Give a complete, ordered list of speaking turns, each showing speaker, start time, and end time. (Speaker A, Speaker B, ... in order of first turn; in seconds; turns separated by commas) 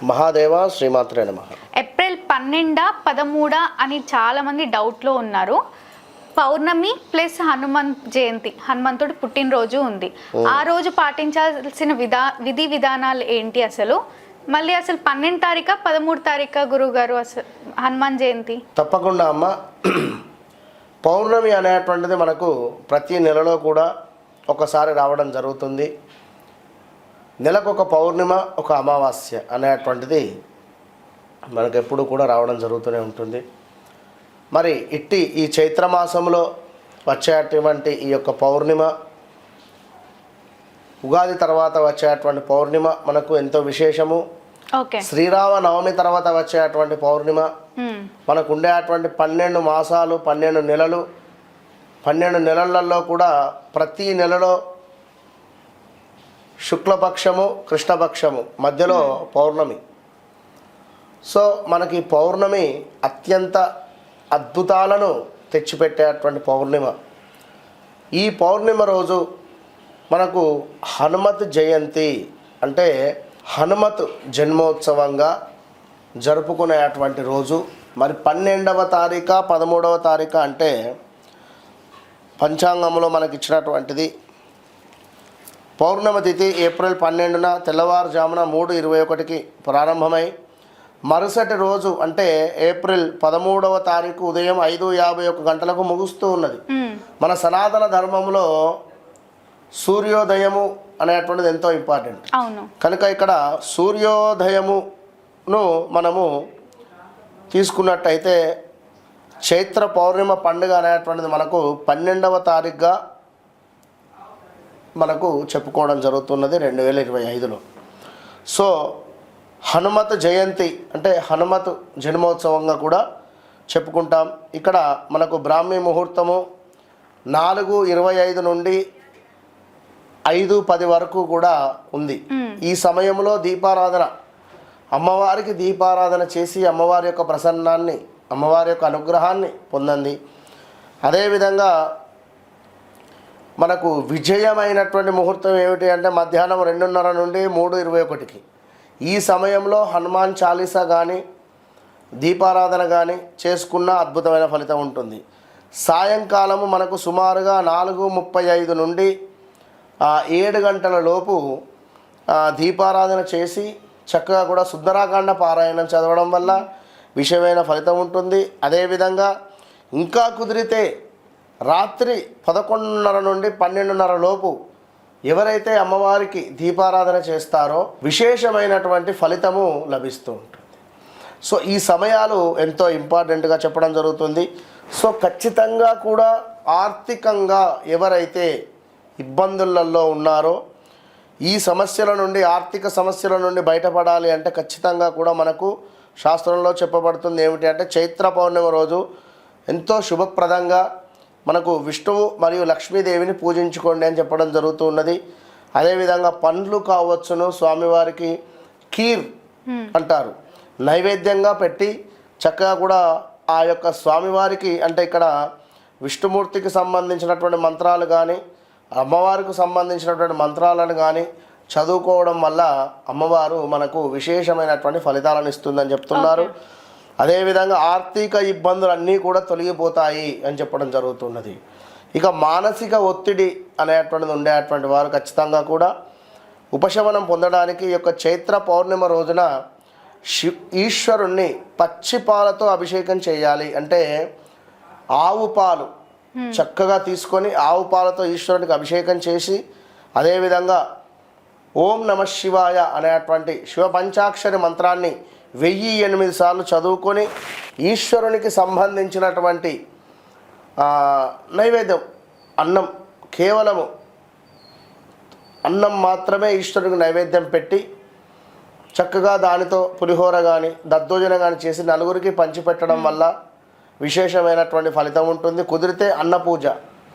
Speaker A: 0.1-1.6, Speaker B: 1.8-5.6, Speaker B: 6.4-14.0, Speaker B: 14.5-18.6, Speaker A: 18.8-20.2, Speaker A: 21.1-23.9, Speaker A: 24.5-25.9, Speaker A: 27.4-30.3, Speaker A: 31.5-33.4, Speaker A: 34.5-36.4, Speaker A: 37.1-38.9, Speaker A: 41.0-44.2, Speaker B: 44.8-45.0, Speaker A: 45.0-47.5, Speaker B: 47.8-48.1, Speaker A: 48.3-51.0, Speaker A: 52.0-54.5, Speaker A: 56.7-59.8, Speaker A: 61.3-63.6, Speaker A: 64.3-66.9, Speaker A: 68.2-69.2, Speaker A: 70.1-72.1, Speaker A: 72.6-72.9, Speaker A: 73.6-75.3, Speaker A: 76.2-80.7, Speaker A: 82.4-84.1, Speaker A: 85.8-90.3, Speaker A: 91.1-96.6, Speaker B: 96.7-97.0, Speaker A: 97.2-98.5, Speaker A: 99.8-102.2, Speaker B: 102.3-102.7, Speaker A: 102.8-104.8, Speaker A: 105.5-106.3, Speaker A: 107.5-108.4, Speaker A: 109.5-112.9, Speaker A: 115.0-117.6, Speaker A: 119.7-123.0, Speaker A: 123.7-126.4, Speaker A: 127.3-128.8, Speaker A: 130.3-134.1, Speaker B: 132.3-132.6, Speaker A: 135.0-140.2, Speaker A: 141.1-141.7, Speaker A: 143.6-148.4, Speaker A: 149.1-151.2, Speaker A: 152.2-155.2, Speaker A: 155.8-159.1, Speaker A: 160.1-161.4, Speaker A: 162.4-166.6, Speaker A: 167.2-169.3, Speaker A: 170.0-170.9, Speaker A: 171.7-174.6, Speaker A: 175.3-180.8, Speaker A: 181.5-184.5, Speaker A: 185.0-188.5, Speaker A: 189.2-190.6, Speaker A: 191.5-199.0, Speaker A: 199.7-200.8, Speaker A: 201.5-205.2, Speaker A: 205.8-208.3, Speaker A: 208.9-209.2, Speaker B: 209.7-209.9, Speaker A: 209.9-210.3, Speaker A: 210.9-215.3, Speaker A: 216.1-218.4, Speaker A: 219.0-226.5, Speaker B: 226.1-226.5, Speaker A: 227.2-231.6, Speaker A: 232.2-235.9, Speaker A: 236.7-239.5, Speaker A: 240.3-244.0, Speaker A: 245.2-245.9, Speaker A: 246.5-249.6, Speaker A: 250.2-250.8, Speaker A: 251.8-257.3, Speaker A: 257.9-259.8, Speaker A: 260.8-262.0, Speaker A: 262.6-263.9, Speaker A: 265.7-267.8, Speaker A: 269.0-273.3, Speaker B: 272.9-273.2, Speaker A: 274.0-276.7